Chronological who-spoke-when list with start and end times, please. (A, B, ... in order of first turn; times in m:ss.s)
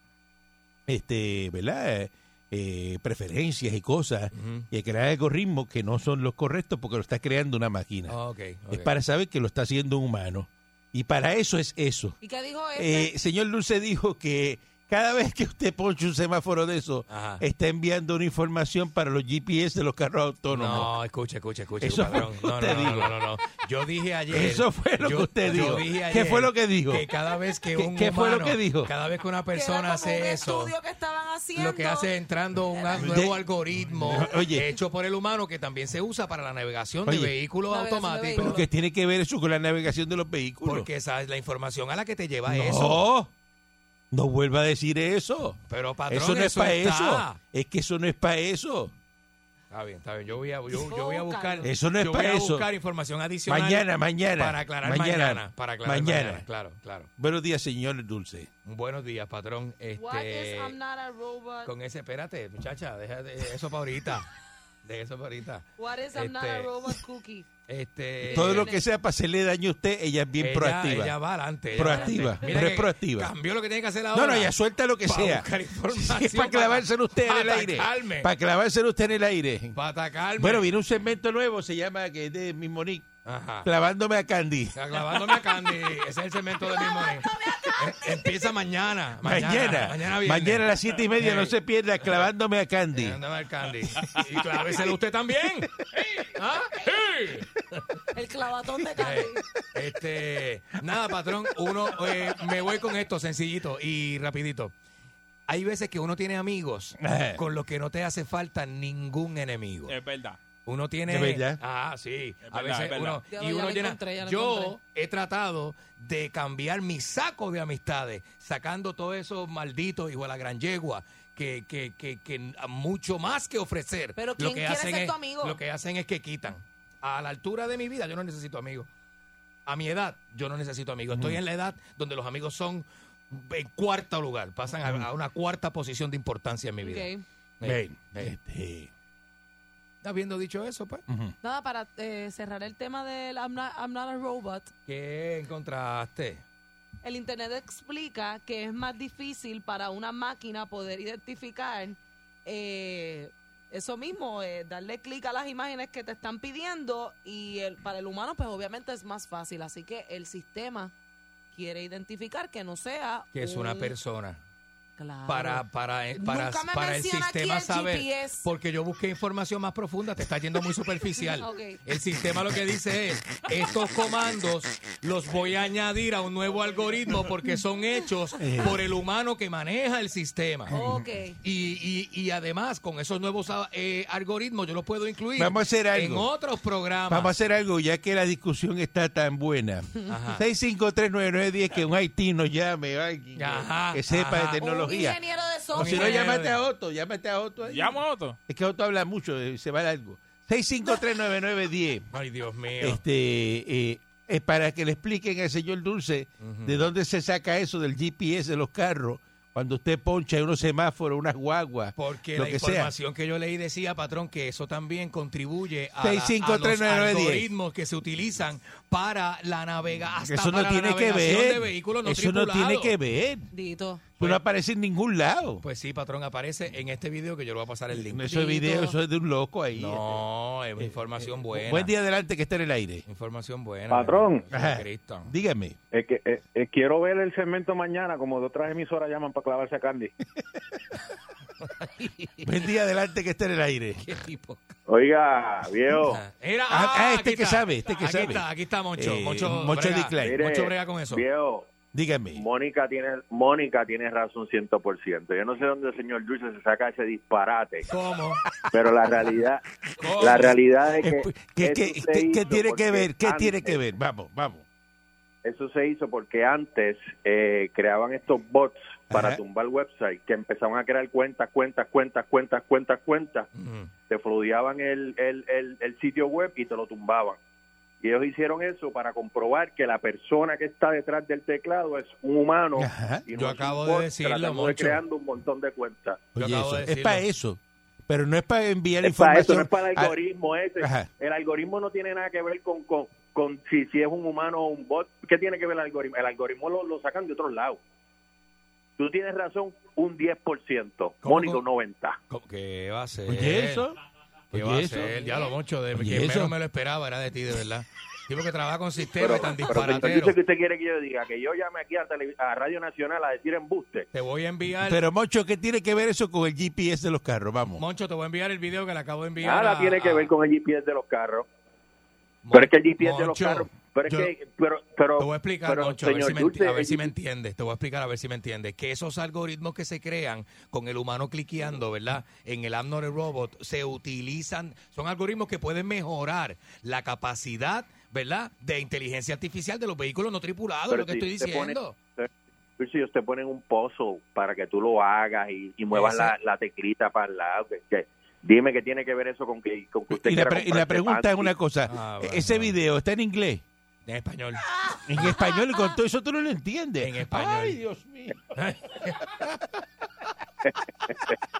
0:00.9-0:08.2 A
0:04.3-0:04.7 B
0:08.1-0:08.9 B
0:08.7-0:12.2 A
0:12.2-0:13.1 C
0:12.8-0:20.9 A
0:17.1-0:17.4 B
0:20.5-0:30.7 B
0:21.8-0:23.5 A
0:24.3-0:27.1 A
0:27.7-0:28.9 A
0:29.5-0:32.1 C
0:31.5-0:38.6 B
0:32.9-0:33.4 A
0:34.1-0:34.7 A
0:37.0-0:37.4 A
0:37.7-0:38.6 C
0:38.4-0:40.9 A
0:40.6-0:43.0 B
0:42.4-0:43.3 A
0:44.1-0:48.9 A
0:45.7-0:47.4 B
0:49.7-0:57.1 B
0:50.8-0:51.7 C
0:51.6-0:52.7 A
0:53.5-0:56.4 A
0:57.2-0:58.5 A
0:58.6-1:00.8 B
1:00.0-1:01.7 C
1:01.6-1:04.3 B
1:04.8-1:06.9 B
1:05.8-1:07.5 C
1:07.7-1:08.8 B
1:08.2-1:11.2 A
1:08.3-1:08.8 C
1:10.4-1:14.5 B
1:11.7-1:13.3 A
1:11.8-1:12.5 C
1:14.1-1:19.8 A
1:15.0-1:18.3 B
1:19.7-1:20.6 B
1:20.4-1:23.1 A
1:23.2-1:23.7 B
1:23.6-1:25.4 A
1:24.7-1:32.3 B
1:29.2-1:33.2 A
1:32.9-1:38.0 B
1:38.1-1:39.4 C
1:39.0-1:44.7 B
1:45.5-1:50.0 B
1:47.0-1:47.4 A
1:49.9-1:50.4 D
1:50.6-2:08.9 B
1:51.0-1:51.6 A
1:52.4-1:53.2 D
1:53.3-1:54.8 C
2:04.2-2:05.6 C
2:09.6-2:18.3 B
2:11.1-2:11.4 A
2:16.8-2:17.2 C
2:17.6-2:18.9 A
2:20.0-2:21.0 B
2:21.1-2:21.3 A
2:21.4-2:24.7 C
2:24.9-2:26.4 B
2:27.0-2:40.9 C
2:41.5-2:43.9 C
2:43.3-2:44.4 B
2:45.0-2:45.6 C
2:45.3-3:00.7 B
2:46.2-2:48.4 C
2:51.4-2:51.8 C
2:58.4-2:58.8 A
3:00.7-3:01.0 A
3:00.7-3:01.4 C
3:01.4-3:07.3 B
3:05.4-3:06.3 A
3:07.1-3:15.2 A
3:10.1-3:10.4 B
3:13.3-3:14.6 B
3:14.6-3:16.4 C
3:15.7-3:16.6 B
3:15.7-3:22.1 A
3:17.7-3:18.4 D
3:22.1-3:23.0 B
3:22.8-3:32.9 A
3:26.4-3:26.8 B
3:32.0-3:42.9 B
3:36.0-3:37.4 A
3:40.2-3:43.5 A
3:43.5-3:44.1 C
3:44.2-3:45.6 A
3:45.6-3:48.9 B
3:47.9-3:50.2 A
3:49.7-3:51.9 B
3:50.8-3:53.0 A
3:53.0-3:55.3 B
3:53.9-3:54.4 E
3:54.5-3:55.8 A
3:55.9-4:00.1 E
4:01.6-4:02.7 B
4:02.4-4:04.2 A
4:04.0-4:04.8 B
4:04.9-4:06.2 E
4:06.0-4:11.2 B
4:06.7-4:10.4 A
4:10.2-4:11.7 E
4:11.9-4:12.4 A
4:12.3-4:17.9 E
4:17.9-4:18.4 B
4:18.7-4:19.6 E
4:20.0-4:20.5 B
4:20.2-4:20.5 A
4:20.2-4:23.8 E
4:21.0-4:24.6 A
4:25.4-4:33.5 E
4:29.1-4:29.4 A
4:33.5-4:33.9 B
4:34.1-4:37.4 E
4:38.0-4:46.2 E
4:42.8-4:43.2 A
4:43.3-4:45.0 B
4:46.4-4:47.2 B
4:46.4-4:50.1 A
4:49.0-4:57.8 E
4:50.8-4:51.1 A
4:59.0-5:02.2 E
5:01.2-5:01.6 B
5:02.3-5:03.8 B
5:03.3-5:04.0 A
5:04.5-5:05.2 A
5:04.5-5:10.4 B
5:05.9-5:06.6 A
5:09.2-5:14.1 E
5:14.1-5:15.0 B
5:14.8-5:17.8 A
5:17.8-5:20.3 B
5:19.4-5:21.5 E
5:22.4-5:23.7 B
5:22.5-5:27.1 E
5:25.2-5:42.0 B
5:40.9-5:51.5 E
5:45.9-5:46.3 B
5:50.1-5:53.6 A
5:51.9-5:52.7 B
5:54.0-5:54.6 B
5:55.0-5:59.7 A
5:57.0-5:57.8 B
5:58.5-5:59.3 B
6:00.6-6:01.3 E